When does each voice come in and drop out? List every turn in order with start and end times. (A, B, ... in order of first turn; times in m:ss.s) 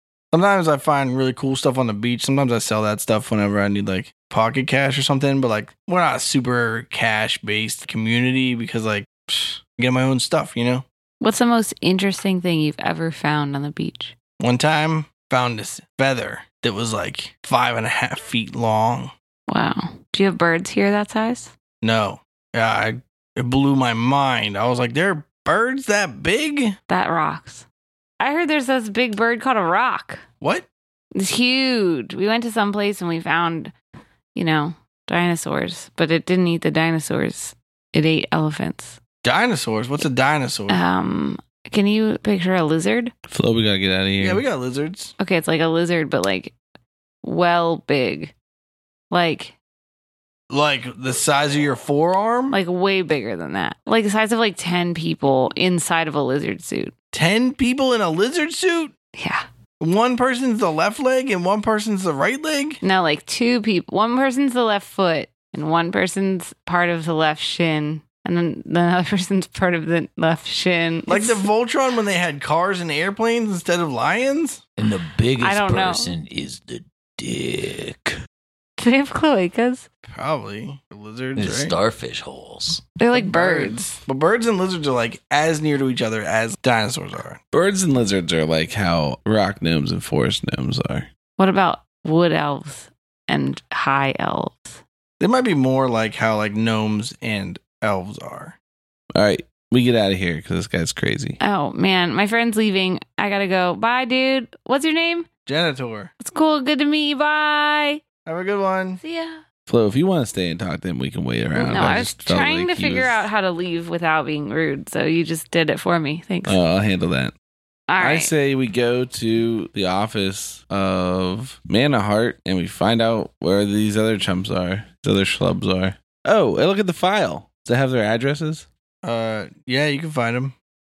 0:00.3-0:10.8 A
0:11.2-0:14.1 B
0:14.4-0:19.1 A
0:19.5-0:21.5 B
0:21.8-0:26.8 A
0:26.9-0:27.6 B
0:28.2-0:30.2 B
0:30.4-0:30.7 A
0:31.1-0:33.7 B
0:34.3-0:39.0 B
0:39.2-0:40.8 A
0:40.7-0:43.1 B
0:43.3-0:44.4 C
0:44.2-0:45.1 A
0:45.2-0:46.5 B
0:47.2-0:48.3 B
0:49.1-0:49.5 B
0:50.5-0:52.6 A
0:52.5-0:56.9 B
0:57.1-0:58.9 A
0:59.2-0:59.4 B
0:59.8-1:02.8 A
1:02.8-1:11.4 B
1:11.1-1:14.6 A
1:14.8-1:18.1 D
1:15.4-1:16.1 B
1:18.8-1:19.9 B
1:20.1-1:21.7 A
1:21.4-1:22.8 D
1:23.0-1:23.8 B
1:23.1-1:27.4 A
1:27.5-1:31.1 C
1:31.4-1:34.8 B
1:35.2-1:38.5 A
1:39.1-1:41.4 C
1:41.4-1:45.2 B
1:45.4-1:46.1 A
1:46.2-1:48.0 B
1:48.2-1:49.0 A
1:49.0-1:49.4 B
1:49.7-1:53.2 C
1:51.5-1:56.6 B
1:56.4-1:57.3 C
1:57.9-1:58.3 B
1:58.0-2:08.7 C
2:09.0-2:10.5 A